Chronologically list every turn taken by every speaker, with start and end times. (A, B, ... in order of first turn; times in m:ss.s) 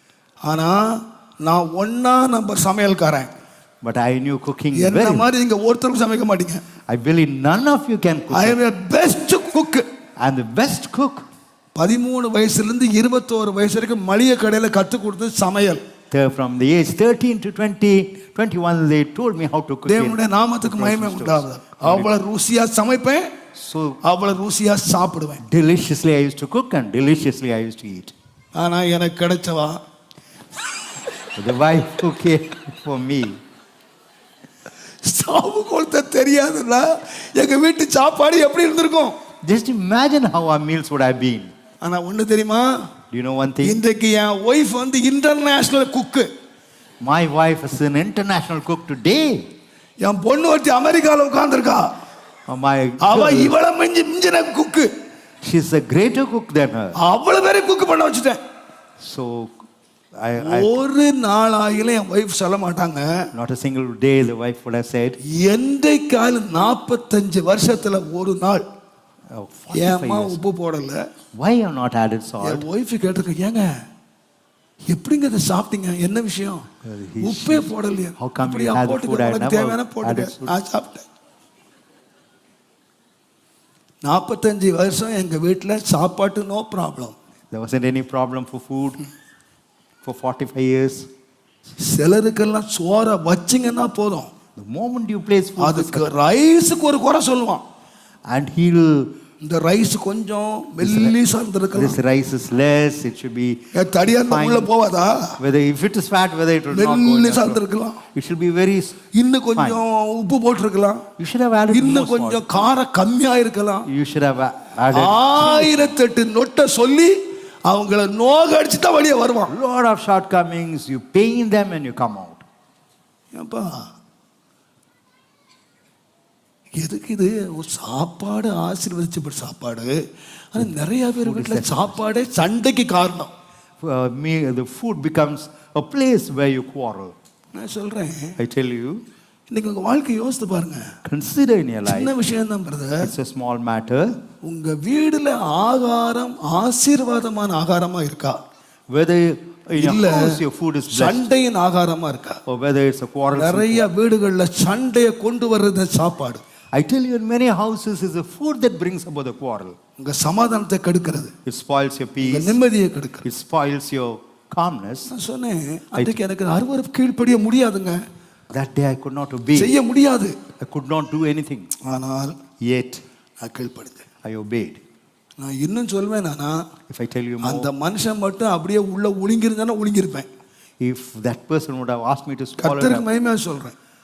0:00.4-0:03.3 A
0:03.8-0:05.3 B
0:04.7-0:06.6 A
0:06.9-0:08.6 B
0:08.3-0:09.9 A
0:10.2-0:11.2 B
0:11.8-0:15.8 A
0:16.1-0:22.1 B
0:19.9-0:23.3 A
0:23.6-0:24.0 B
0:24.0-0:25.4 A
0:25.4-0:28.1 B
0:28.6-0:29.8 A
0:31.4-0:33.4 B
0:35.0-0:39.2 A
0:39.4-0:41.5 B
0:41.8-0:42.8 A
0:43.1-0:43.8 B
0:43.6-0:46.3 A
0:47.0-0:49.5 B
0:50.0-0:51.9 A
0:52.5-0:53.6 B
0:53.0-0:54.9 A
0:55.4-0:57.0 B
0:57.0-0:58.4 A
0:59.0-0:59.6 B
1:00.2-1:00.8 B
1:00.4-1:03.3 A
1:03.3-1:05.2 B
1:05.2-1:08.6 A
1:09.3-1:10.4 B
1:09.7-1:11.0 A
1:11.4-1:12.7 B
1:12.4-1:13.8 A
1:14.9-1:16.7 A
1:16.8-1:20.6 B
1:17.2-1:21.1 A
1:24.0-1:27.2 A
1:27.5-1:29.0 B
1:30.0-1:31.1 B
1:31.8-1:34.3 A
1:34.6-1:36.1 B
1:35.6-1:37.6 A
1:38.3-1:39.2 B
1:39.4-1:42.0 A
1:40.8-1:41.2 B
1:41.7-1:44.7 B
1:43.7-1:45.4 A
1:45.4-1:47.6 B
1:46.7-1:48.0 A
1:48.1-1:49.0 B
1:49.1-1:51.0 A
1:49.6-1:49.8 B
1:51.2-1:52.5 B
1:51.7-1:53.9 A
1:53.9-1:55.9 B
1:54.9-1:59.5 A
1:59.5-2:02.4 B
2:03.3-2:03.8 A
2:06.8-2:10.0 A
2:10.5-2:13.3 A
2:10.6-2:12.0 B
2:13.8-2:17.1 B
2:17.6-2:18.4 A
2:18.4-2:19.0 B
2:19.5-2:20.9 A
2:21.0-2:22.1 B
2:21.8-2:23.1 A
2:23.0-2:24.2 B
2:24.4-2:28.4 A
2:28.9-2:31.3 B
2:29.8-2:32.4 A
2:32.5-2:33.9 B
2:33.4-2:36.4 A
2:36.7-2:39.8 B
2:40.0-2:41.3 A
2:41.4-2:42.6 B
2:42.2-2:43.2 A
2:43.2-2:45.1 B
2:45.1-2:48.0 A
2:48.5-2:49.7 B
2:49.6-2:50.4 A
2:50.6-2:51.7 B
2:51.8-2:52.4 A
2:52.6-2:53.0 B
2:53.4-2:54.0 A
2:54.2-2:54.8 B
2:55.4-2:56.6 A
2:56.9-2:57.7 B
2:57.4-3:00.3 A
3:00.8-3:03.1 B
3:02.6-3:03.8 A